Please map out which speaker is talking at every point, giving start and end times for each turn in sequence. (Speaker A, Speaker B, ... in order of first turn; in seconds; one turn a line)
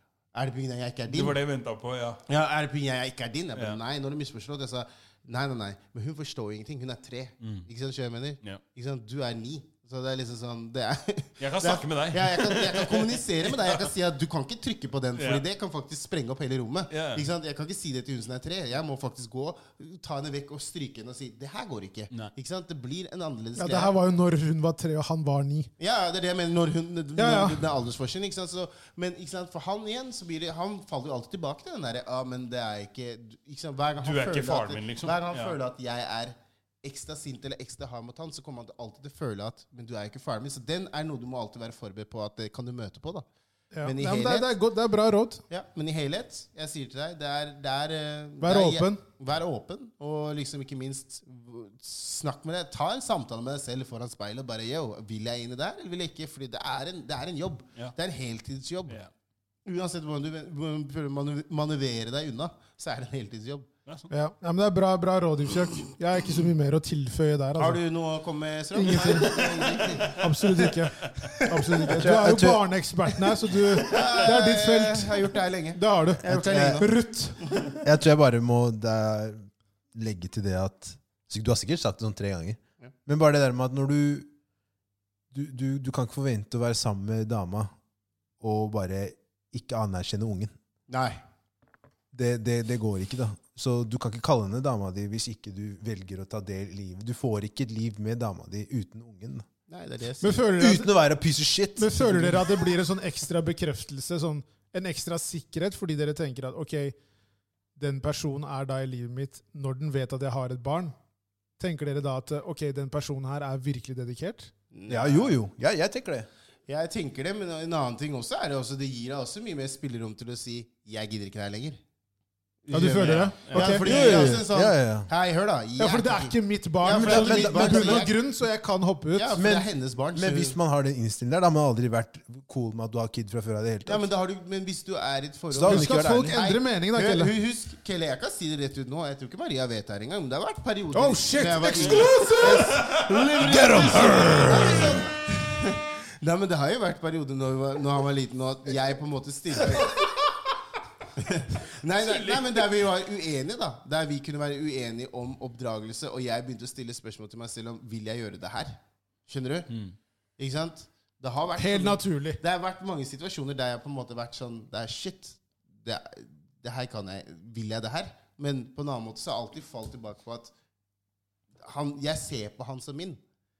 Speaker A: 0.3-1.4
Speaker B: 1.1-2.2
Speaker A: 2.3-23.9
Speaker B: 7.4-7.7
Speaker B: 11.4-13.9
Speaker B: 15.2-15.4
Speaker B: 16.9-17.2
Speaker C: 23.6-25.7
Speaker A: 25.8-43.3
Speaker C: 27.2-27.6
Speaker B: 34.0-35.6
Speaker C: 43.7-45.4
Speaker A: 43.8-44.5
Speaker A: 45.5-59.0
Speaker C: 48.4-49.0
Speaker A: 59.6-63.7
Speaker C: 64.1-67.8
Speaker A: 67.6-70.3
Speaker C: 68.8-69.4
Speaker C: 70.0-75.2
Speaker A: 71.2-72.1
Speaker D: 72.0-72.6
Speaker A: 73.8-77.8
Speaker C: 75.8-76.3
Speaker D: 76.3-76.9
Speaker C: 76.8-77.5
Speaker D: 77.8-84.3
Speaker D: 85.3-87.7
Speaker D: 88.4-90.5
Speaker A: 90.9-91.2
Speaker D: 92.1-99.5
Speaker A: 99.7-100.5
Speaker C: 100.2-100.9
Speaker D: 100.6-102.5
Speaker C: 101.8-107.0
Speaker C: 107.8-110.9
Speaker C: 111.6-114.5
Speaker A: 114.7-115.4
Speaker D: 114.9-116.3
Speaker A: 116.7-121.8
Speaker A: 122.7-128.2
Speaker C: 122.7-123.8
Speaker B: 122.8-124.2
Speaker D: 123.8-125.1
Speaker C: 125.8-129.4
Speaker D: 126.9-128.1
Speaker A: 129.1-130.6
Speaker D: 129.4-134.0
Speaker A: 133.9-150.2
Speaker D: 135.5-136.4
Speaker C: 135.7-137.3
Speaker C: 140.9-142.4
Speaker D: 141.7-142.8
Speaker B: 141.8-144.8
Speaker D: 143.4-145.0
Speaker A: 151.2-159.7
Speaker B: 152.0-152.7
Speaker A: 160.4-170.5
Speaker C: 161.6-162.4
Speaker A: 171.6-173.2